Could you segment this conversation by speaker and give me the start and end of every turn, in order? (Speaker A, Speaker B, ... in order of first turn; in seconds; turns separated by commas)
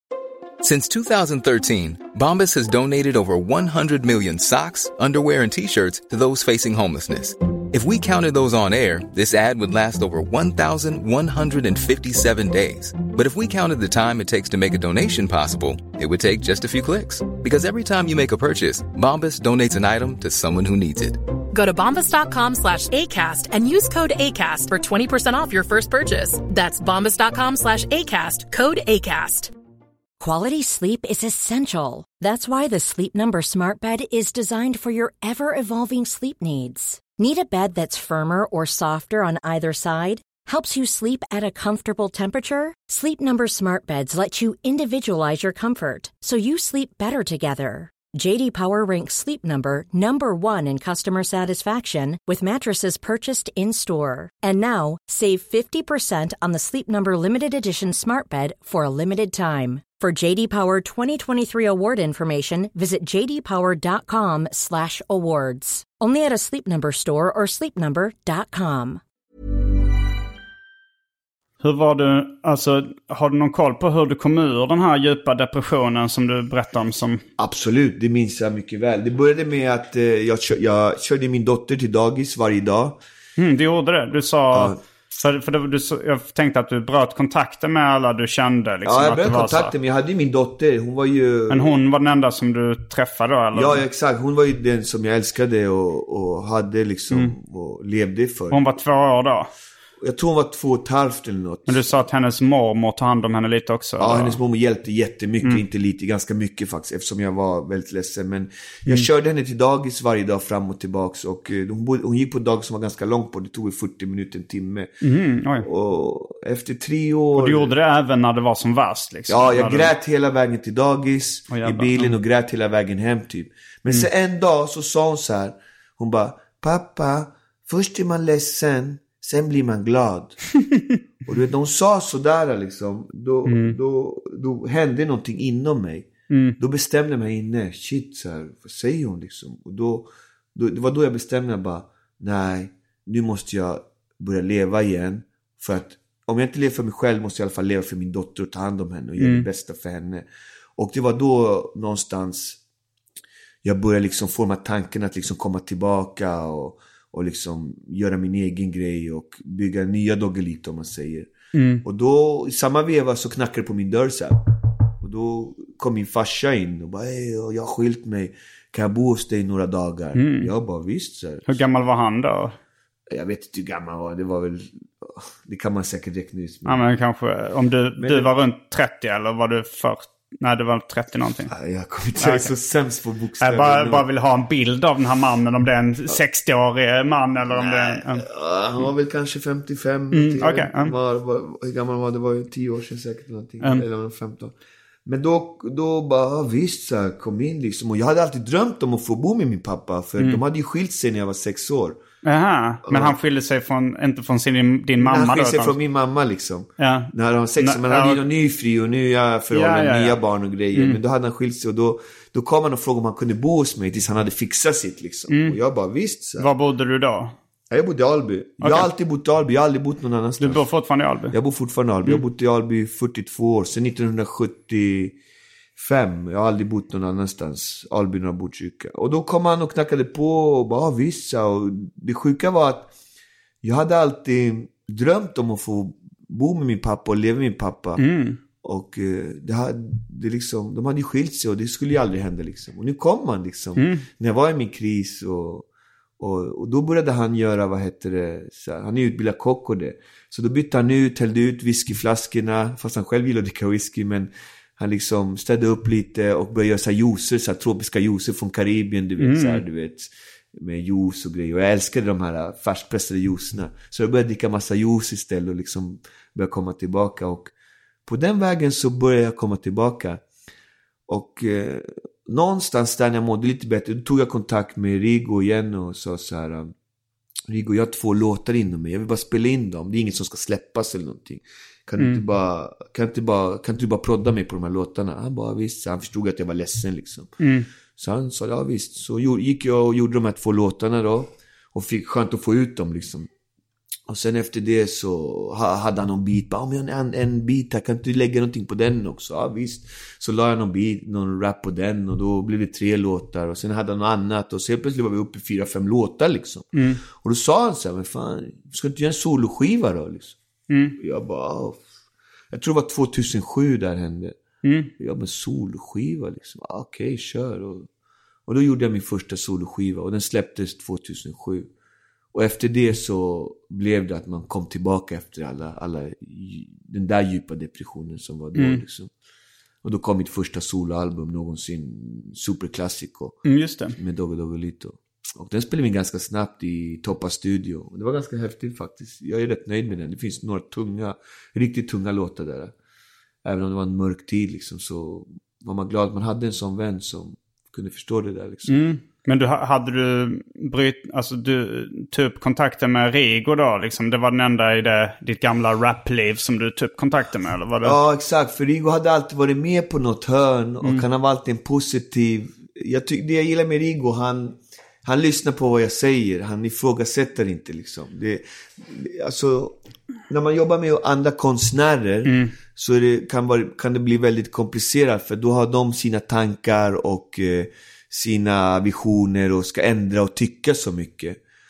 Speaker A: 0.6-21.3, Speaker B: 21.5-29.5, Speaker C: 30.2-69.0, Speaker D: 71.6-77.2, Speaker E: 77.4-83.0, Speaker D: 83.4-89.7, Speaker E: 84.5-84.8, Speaker E: 88.8-91.8, Speaker D: 91.5-93.8, Speaker E: 93.5-98.7, Speaker D: 97.1-97.3, Speaker D: 98.5-99.5, Speaker E: 100.0-101.9, Speaker D: 101.7-104.4, Speaker E: 104.0-114.9, Speaker D: 115.0-115.7, Speaker E: 115.6-117.7, Speaker D: 117.4-119.9, Speaker E: 119.3-130.4, Speaker D: 121.5-122.2, Speaker D: 130.6-131.0, Speaker E: 131.3-152.6, Speaker D: 133.5-133.8, Speaker D: 136.3-136.6, Speaker D: 149.2-149.5, Speaker E: 153.6-161.3, Speaker D: 161.5-161.8, Speaker E: 161.8-171.6, Speaker D: 170.2-170.5, Speaker D: 171.5-172.6, Speaker E: 173.1-176.8, Speaker D: 176.7-181.5, Speaker E: 178.0-178.3, Speaker E: 181.5-184.1, Speaker D: 182.2-182.5, Speaker D: 183.4-188.2, Speaker E: 187.5-194.6, Speaker D: 190.1-190.9, Speaker E: 195.1-202.0, Speaker D: 202.2-205.8, Speaker E: 202.9-203.2, Speaker E: 205.0-216.5, Speaker D: 206.8-208.2, Speaker D: 209.5-210.2, Speaker D: 215.3-215.6, Speaker D: 216.4-217.4, Speaker E: 217.7-220.7, Speaker D: 218.6-218.9, Speaker D: 220.4-221.4, Speaker E: 221.3-225.2, Speaker E: 225.8-232.9, Speaker E: 233.6-238.0, Speaker D: 238.0-238.4, Speaker E: 238.6-245.7, Speaker D: 243.8-244.1, Speaker E: 246.2-267.5, Speaker D: 259.2-259.6, Speaker E: 268.1-270.2, Speaker E: 271.1-276.7, Speaker E: 277.5-287.3, Speaker D: 287.4-287.7, Speaker E: 288.0-293.3, Speaker E: 294.1-310.4, Speaker D: 306.7-307.0, Speaker D: 310.7-311.0, Speaker E: 311.0-311.8, Speaker E: 312.5-314.4, Speaker D: 314.6-314.9, Speaker E: 315.0-317.9, Speaker E: 318.5-321.7, Speaker E: 322.3-329.1, Speaker D: 328.6-328.8, Speaker E: 329.8-333.4, Speaker D: 333.4-334.0, Speaker E: 333.9-342.7, Speaker E: 343.4-348.8, Speaker D: 348.7-358.0, Speaker E: 357.8-369.8, Speaker E: 370.3-381.4, Speaker D: 372.2-372.6